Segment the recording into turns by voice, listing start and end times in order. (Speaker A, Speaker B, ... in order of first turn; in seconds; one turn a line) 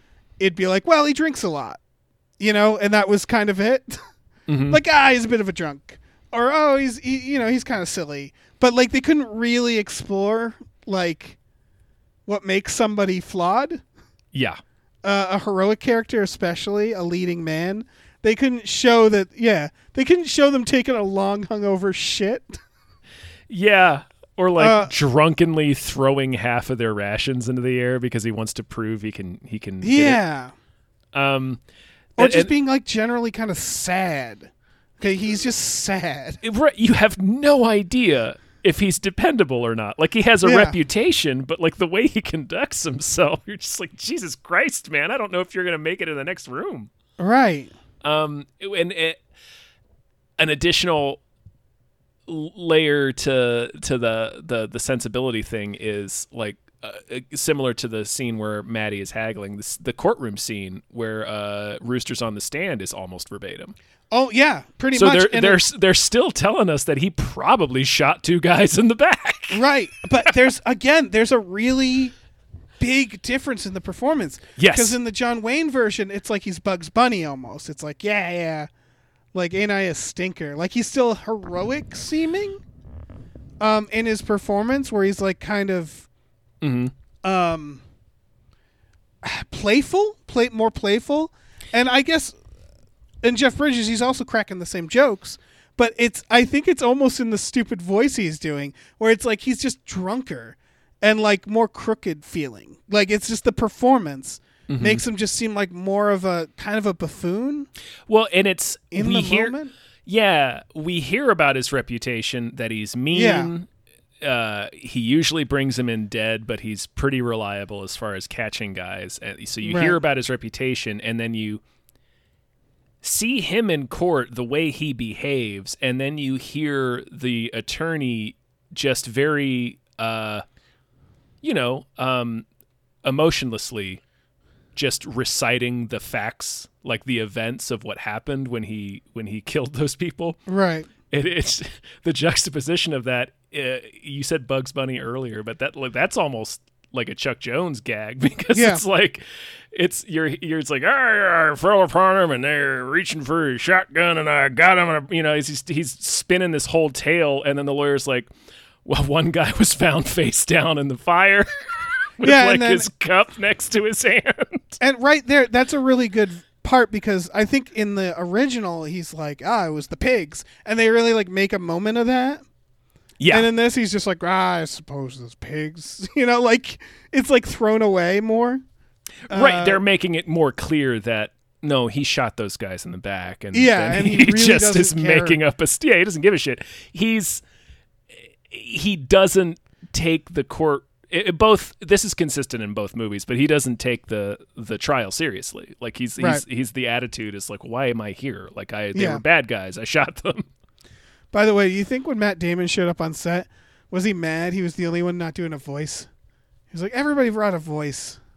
Speaker A: 0.4-1.8
Speaker A: 2.4-4.0
Speaker B: 4.5-4.8
Speaker A: 4.7-11.4
Speaker A: 12.2-13.8
Speaker B: 14.3-14.6
Speaker A: 15.0-22.6
Speaker B: 23.5-30.2
Speaker A: 24.6-24.9
Speaker A: 29.8-30.5
Speaker B: 31.1-31.6
Speaker A: 32.2-36.4
Speaker B: 32.2-32.5
Speaker B: 36.4-46.9
Speaker A: 40.4-40.8
Speaker A: 47.2-47.7
Speaker B: 48.0-49.2
Speaker B: 50.4-51.2
Speaker B: 52.3-63.7
Speaker A: 64.1-65.6
Speaker B: 64.9-69.6
Speaker A: 69.5-72.1
Speaker A: 72.8-78.7
Speaker B: 74.6-75.0
Speaker A: 79.3-82.6
Speaker A: 83.6-86.0
Speaker B: 86.6-86.9
Speaker A: 87.2-87.8
Speaker A: 89.2-92.4
Speaker A: 93.2-107.7
Speaker B: 104.7-105.0
Speaker B: 108.1-113.7
Speaker A: 108.9-109.7
Speaker A: 113.1-113.5
Speaker B: 114.2-121.6
Speaker A: 119.6-120.0
Speaker B: 123.0-130.4
Speaker B: 131.4-132.4
Speaker B: 133.0-134.0
Speaker B: 134.7-140.4
Speaker A: 140.5-140.9
Speaker B: 141.1-158.3
Speaker A: 148.5-148.8
Speaker B: 158.8-161.5
Speaker B: 162.2-164.8
Speaker A: 162.2-162.9
Speaker A: 164.8-172.4
Speaker B: 173.2-173.5
Speaker A: 173.3-178.6
Speaker B: 179.3-187.4
Speaker A: 179.3-179.8
Speaker A: 183.5-185.4
Speaker B: 188.5-200.5
Speaker A: 196.2-196.4
Speaker A: 198.9-199.2
Speaker A: 201.3-206.1
Speaker A: 206.7-208.2